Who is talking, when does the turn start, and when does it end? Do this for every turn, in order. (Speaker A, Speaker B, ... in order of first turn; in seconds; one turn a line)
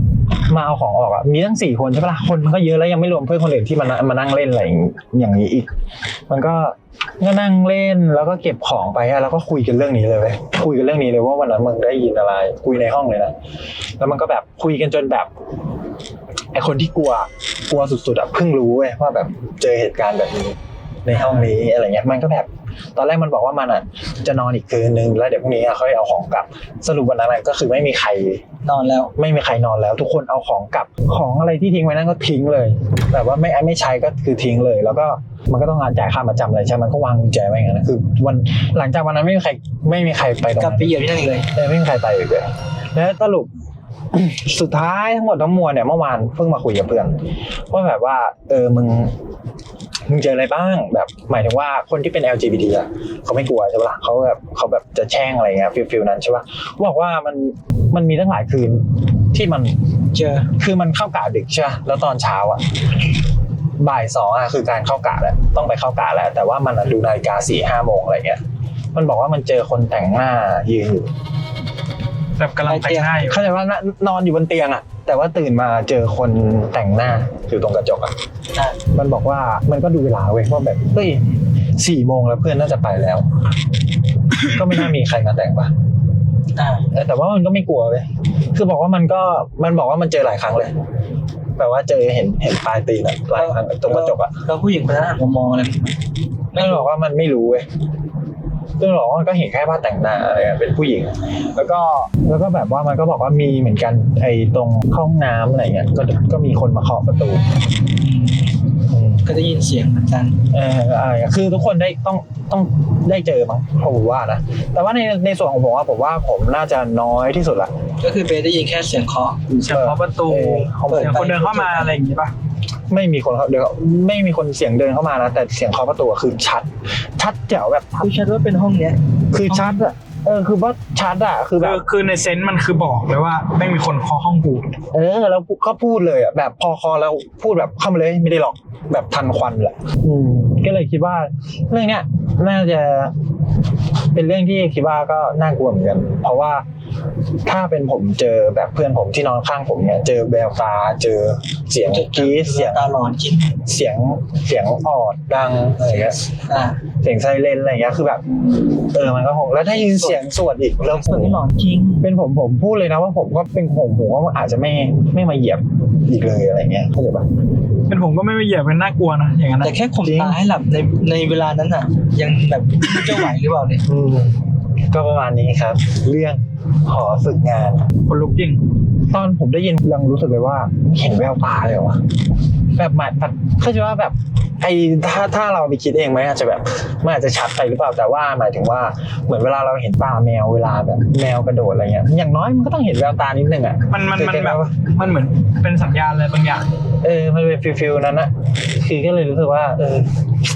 Speaker A: 0.5-5.7
Speaker A: 6.3-13.3
Speaker A: 14.0-15.3
Speaker A: 16.5-28.4
Speaker B: 21.1-21.5
Speaker B: 28.6-29.1
Speaker A: 29.1-40.9
Speaker B: 40.6-41.5
Speaker A: 41.5-43.5
Speaker A: 44.1-47.1
Speaker A: 47.7-49.1
Speaker A: 50.1-59.8
Speaker B: 60.1-60.5
Speaker A: 60.5-62.6
Speaker A: 63.8-68.4
Speaker A: 68.9-71.1
Speaker C: 72.4-73.4
Speaker B: 72.6-73.1
Speaker A: 73.2-78.1
Speaker A: 78.9-81.2
Speaker A: 81.8-83.3
Speaker A: 84.4-85.7
Speaker B: 86.5-86.8
Speaker A: 86.9-90.7
Speaker A: 91.6-94.4
Speaker B: 93.3-96.0
Speaker B: 96.5-96.9
Speaker A: 96.5-97.7
Speaker A: 98.8-107.4
Speaker B: 108.0-108.6
Speaker A: 108.9-109.3
Speaker B: 109.2-110.4
Speaker A: 110.5-117.7
Speaker B: 118.0-119.5
Speaker A: 119.5-121.2
Speaker C: 119.7-122.3
Speaker B: 120.9-121.9
Speaker A: 122.9-128.1
Speaker B: 128.0-129.8
Speaker A: 129.3-131.8
Speaker C: 131.6-134.7
Speaker A: 134.9-143.1
Speaker A: 144.1-146.6
Speaker A: 147.4-152.9
Speaker B: 151.8-153.6
Speaker A: 153.6-156.2
Speaker B: 155.8-156.8
Speaker A: 157.0-161.4
Speaker B: 159.6-160.2
Speaker B: 160.9-162.0
Speaker A: 162.0-167.3
Speaker C: 167.9-169.7
Speaker B: 169.6-173.8
Speaker A: 170.0-170.4
Speaker A: 173.8-177.8
Speaker C: 178.1-178.6
Speaker A: 179.1-182.0
Speaker A: 182.7-194.7
Speaker C: 193.9-196.6
Speaker A: 197.0-200.1